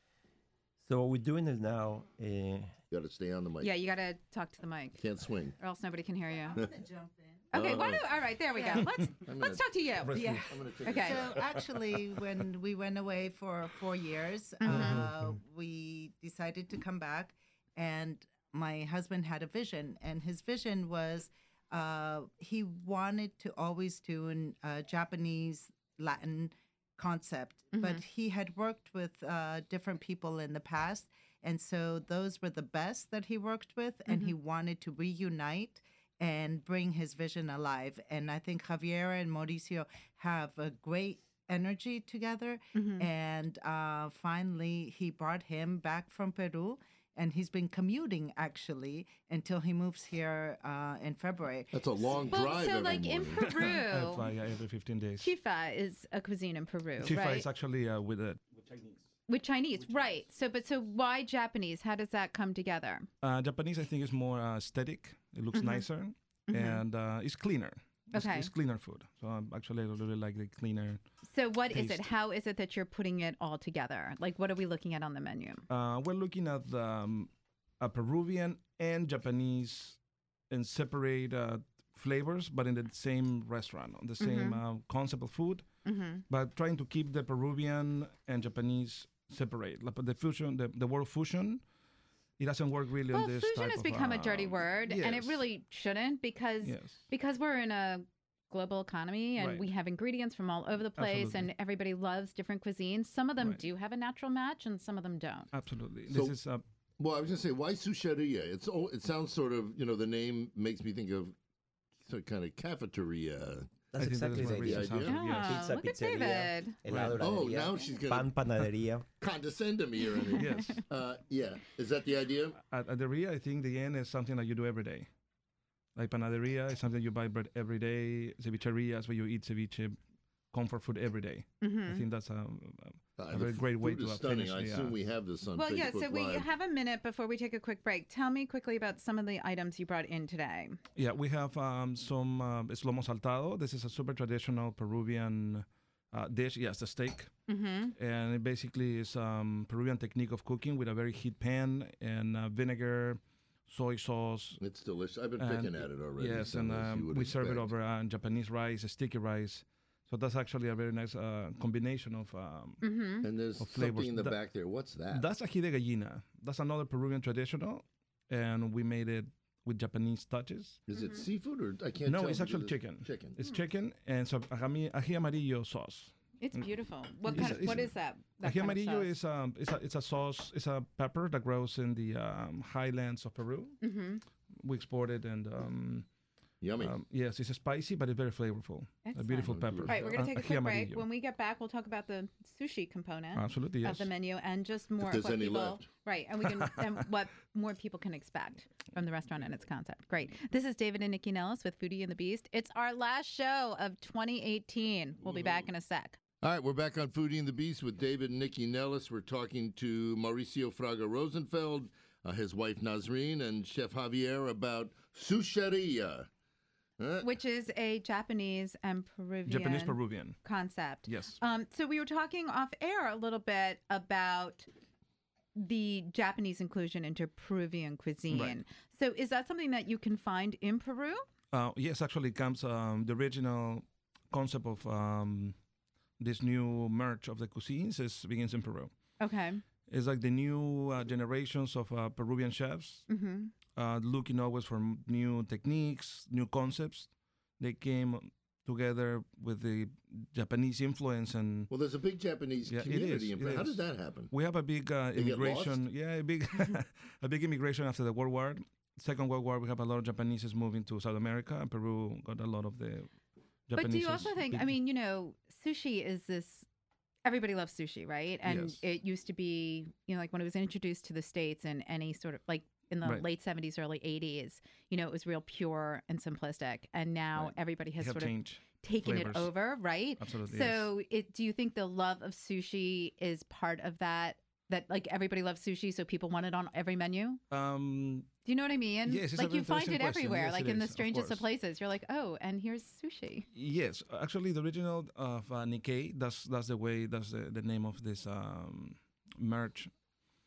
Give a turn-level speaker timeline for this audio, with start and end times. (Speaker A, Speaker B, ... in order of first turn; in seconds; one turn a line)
Speaker A: 0.8-2.8
Speaker B: 2.9-3.7
Speaker C: 3.6-5.0
Speaker B: 5.0-5.5
Speaker C: 5.6-6.6
Speaker D: 6.5-7.4
Speaker C: 7.5-11.2
Speaker B: 7.5-8.2
Speaker B: 9.2-11.4
Speaker E: 10.1-10.5
Speaker D: 11.0-52.3
Speaker C: 14.6-15.1
Speaker E: 14.7-15.3
Speaker C: 27.7-28.0
Speaker C: 34.1-34.3
Speaker C: 42.7-43.1
Speaker B: 51.7-53.5
Speaker C: 52.3-54.3
Speaker E: 53.5-55.3
Speaker C: 55.2-57.5
Speaker E: 57.0-59.0
Speaker C: 59.3-63.1
Speaker E: 63.2-71.0
Speaker C: 65.5-65.8
Speaker C: 66.5-66.8
Speaker C: 68.1-68.5
Speaker C: 71.2-75.6
Speaker E: 71.7-72.1
Speaker E: 75.7-80.0
Speaker E: 80.5-85.7
Speaker C: 84.2-84.6
Speaker C: 85.8-86.2
Speaker E: 86.3-91.6
Speaker E: 92.4-95.4
Speaker C: 93.1-105.5
Speaker E: 96.6-97.0
Speaker E: 99.4-99.7
Speaker E: 101.0-101.5
Speaker E: 105.5-106.6
Speaker B: 106.1-106.3
Speaker B: 107.0-111.3
Speaker B: 112.0-115.2
Speaker A: 113.9-119.0
Speaker E: 114.0-115.7
Speaker C: 115.0-116.8
Speaker E: 116.9-117.3
Speaker B: 117.1-118.4
Speaker B: 119.2-122.6
Speaker E: 120.3-120.8
Speaker C: 120.4-120.8
Speaker E: 122.6-125.1
Speaker E: 126.0-130.0
Speaker E: 130.5-135.0
Speaker C: 131.6-132.0
Speaker B: 133.2-136.5
Speaker C: 135.5-140.8
Speaker E: 140.9-147.3
Speaker C: 147.5-147.9
Speaker E: 147.9-154.6
Speaker B: 154.6-157.7
Speaker E: 155.4-162.8
Speaker C: 162.8-163.2
Speaker B: 163.2-165.3
Speaker E: 163.6-164.4
Speaker E: 165.1-170.8
Speaker B: 170.9-173.4
Speaker C: 170.9-171.2
Speaker E: 172.1-176.6
Speaker C: 176.4-179.1
Speaker E: 177.2-183.8
Speaker C: 183.8-184.2
Speaker E: 184.6-186.1
Speaker B: 186.6-187.0
Speaker E: 186.8-191.0
Speaker C: 189.0-206.2
Speaker B: 189.4-190.2
Speaker E: 193.3-194.1
Speaker B: 195.0-195.9
Speaker B: 206.4-216.3
Speaker B: 217.0-217.3
Speaker C: 217.2-224.7
Speaker E: 219.4-220.4
Speaker E: 221.1-221.4
Speaker C: 225.6-231.2
Speaker E: 228.3-228.6
Speaker E: 231.5-235.6
Speaker E: 236.2-238.9
Speaker C: 239.2-239.6
Speaker E: 239.9-243.1
Speaker C: 243.1-243.5
Speaker E: 243.7-251.7
Speaker B: 251.7-254.3
Speaker E: 252.7-263.1
Speaker B: 255.1-255.8
Speaker E: 263.7-264.8
Speaker C: 263.7-266.6
Speaker C: 267.2-287.4
Speaker E: 268.4-268.8
Speaker E: 277.3-279.5
Speaker E: 280.2-280.9
Speaker E: 287.5-288.3
Speaker C: 288.4-293.4
Speaker E: 289.0-291.4
Speaker E: 293.5-299.9